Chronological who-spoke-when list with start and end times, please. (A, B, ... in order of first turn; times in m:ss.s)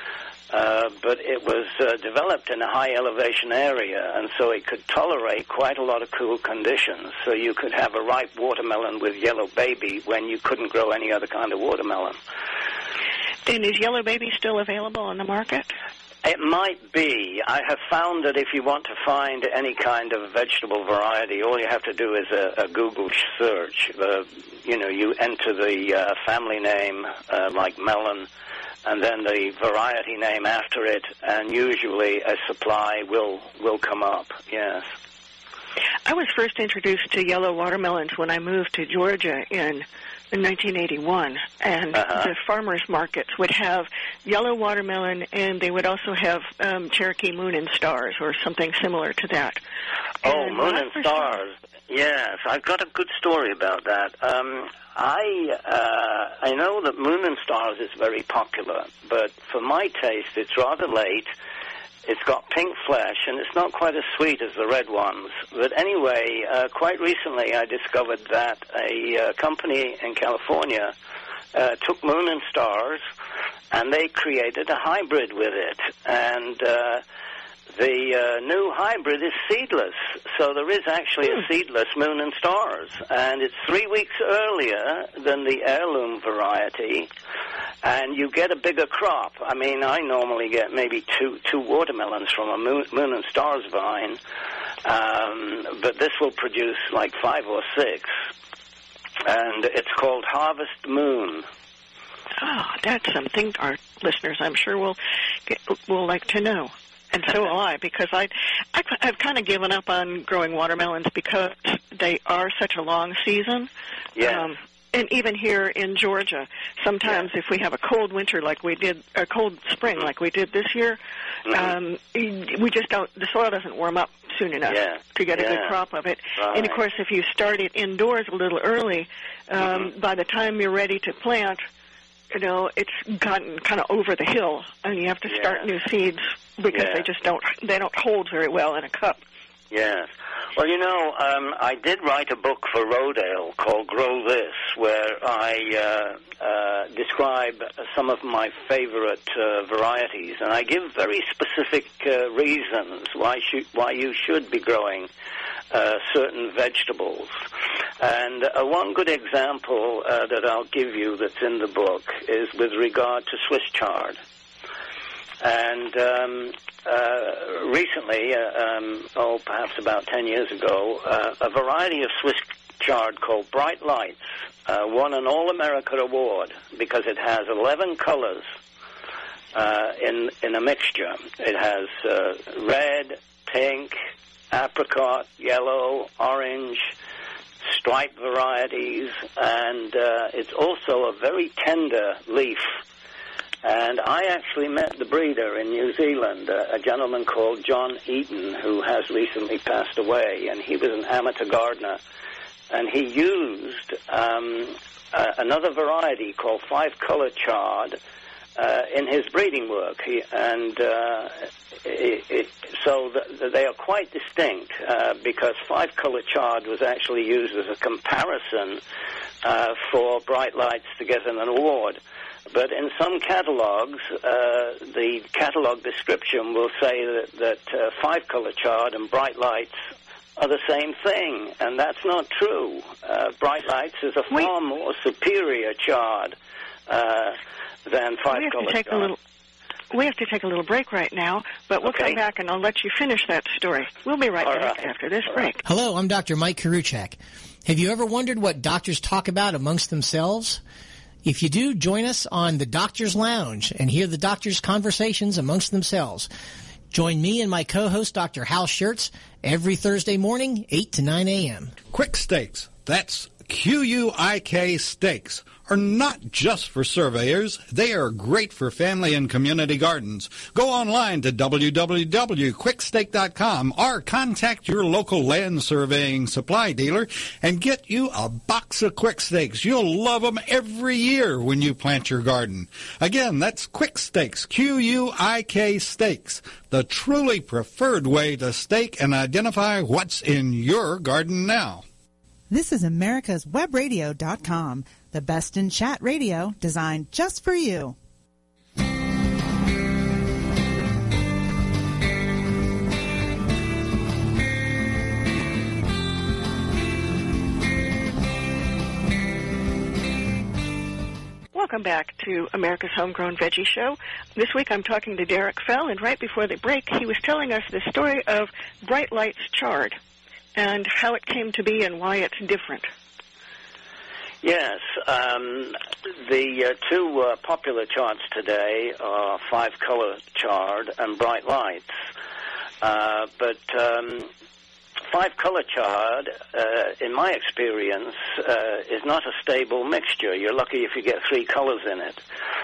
0:00.5-0:12.2 A
0:13.4-0:15.7 B
0:16.2-0:28.3 A
0:28.8-0:34.9 A
0:36.0-0:49.6 B
0:41.9-0:42.3 A
0:50.2-0:51.4 B
0:50.2-1:01.2 A
1:02.0-1:10.9 A
1:11.5-1:13.0 A
1:13.7-1:17.0 A
1:17.7-1:27.1 A
1:27.8-1:34.2 A
1:34.8-1:38.1 A
1:39.2-1:41.4 A
1:42.4-2:11.6 B
1:54.2-1:54.5 A
2:04.7-2:05.8 A
2:06.4-2:06.8 A
2:09.6-2:09.9 A
2:12.3-2:19.2 B
2:15.3-2:15.6 A
2:16.7-2:17.0 A
2:19.7-2:35.1 A
2:35.7-2:37.4 A
2:38.0-2:44.2 A
2:45.4-2:58.4 A
2:59.5-3:04.0 A
3:04.5-3:06.9 A
3:07.6-3:12.6 A
3:13.6-3:22.0 A
3:22.7-3:28.0 A
3:28.6-3:38.8 A
3:39.4-3:49.8 A
3:50.4-3:56.3 A
3:56.9-3:59.1 A
3:58.3-3:59.2 B
3:59.9-4:05.6 B
4:01.8-4:02.2 A
4:04.4-4:05.4 A
4:05.6-4:10.6 C
4:11.2-4:16.3 C
4:16.9-4:21.8 C
4:21.9-4:51.8 D
4:52.5-4:57.9 E
5:11.5-5:20.0 B
5:20.6-5:22.9 B
5:24.4-5:31.9 A
5:32.8-5:34.3 A
5:35.1-5:42.2 A